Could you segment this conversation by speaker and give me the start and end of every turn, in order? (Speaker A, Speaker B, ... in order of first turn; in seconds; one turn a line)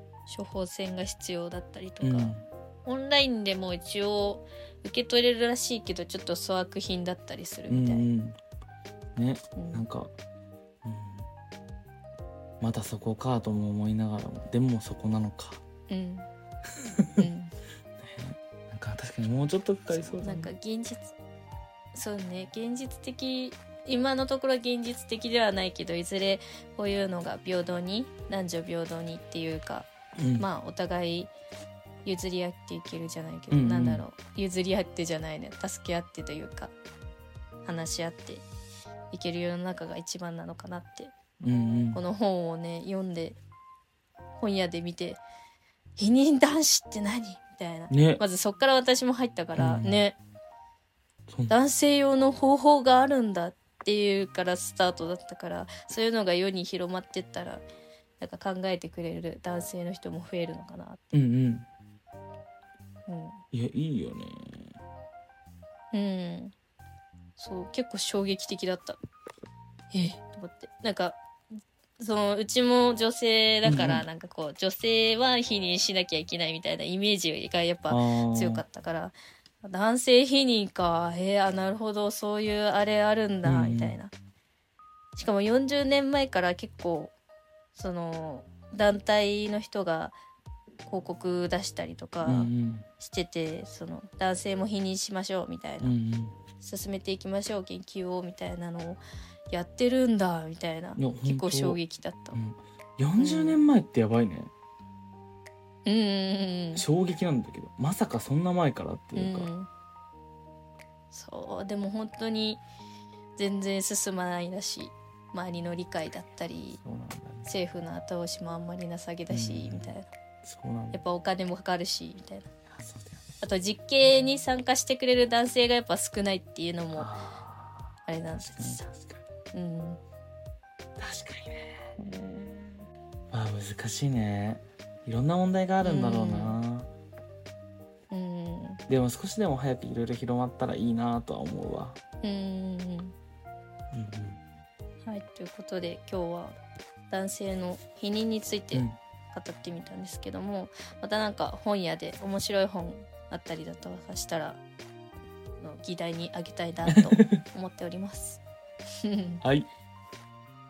Speaker A: 0.3-8.1
Speaker B: 2.0-2.5
Speaker B: 7.7-8.4
Speaker B: 9.2-10.1
Speaker A: 9.6-9.8
Speaker B: 10.8-11.3
Speaker B: 12.6-15.6
Speaker A: 15.9-16.3
Speaker B: 17.0-17.3
Speaker A: 17.2-17.5
Speaker B: 18.0-20.5
Speaker A: 19.9-21.1
Speaker A: 21.9-31.3
Speaker B: 30.2-30.5
Speaker A: 32.0-36.7
Speaker B: 33.5-34.0
Speaker A: 37.6-38.5
Speaker A: 39.1-41.1
Speaker B: 41.4-42.0
Speaker A: 41.9-43.4
Speaker A: 44.4-45.2
Speaker A: 46.0-50.2
Speaker B: 47.9-48.2
Speaker B: 49.6-50.0
Speaker B: 51.3-51.5
Speaker A: 51.5-57.6
Speaker A: 58.2-61.2
Speaker B: 61.1-61.7
Speaker A: 63.1-63.4
Speaker B: 63.5-64.7
Speaker A: 65.9-66.5
Speaker A: 67.4-69.0
Speaker A: 69.9-71.2
Speaker A: 72.0-84.1
Speaker B: 73.7-74.1
Speaker B: 77.9-78.6
Speaker B: 83.5-84.0
Speaker A: 85.2-87.1
Speaker A: 87.8-90.2
Speaker A: 90.9-96.0
Speaker B: 92.2-92.9
Speaker B: 95.8-96.4
Speaker A: 96.6-102.4
Speaker B: 101.0-101.8
Speaker B: 102.3-104.5
Speaker A: 103.2-103.7
Speaker A: 105.8-106.9
Speaker B: 106.8-109.5
Speaker A: 109.2-109.7
Speaker A: 111.1-112.6
Speaker A: 113.4-116.8
Speaker B: 116.8-117.5
Speaker A: 117.5-120.1
Speaker B: 119.3-121.0
Speaker A: 120.9-122.5
Speaker B: 122.7-123.2
Speaker A: 123.4-127.1
Speaker B: 126.9-129.2
Speaker A: 128.1-128.9
Speaker A: 129.5-130.0
Speaker B: 131.0-132.2
Speaker A: 132.0-132.7
Speaker B: 133.3-136.9
Speaker A: 135.8-136.6
Speaker A: 138.1-138.8
Speaker B: 138.9-142.0
Speaker A: 142.2-143.2
Speaker B: 143.9-144.4
Speaker A: 145.0-146.6
Speaker A: 147.1-154.6
Speaker A: 155.6-158.4
Speaker B: 156.9-157.4
Speaker A: 159.0-159.4
Speaker B: 159.4-159.7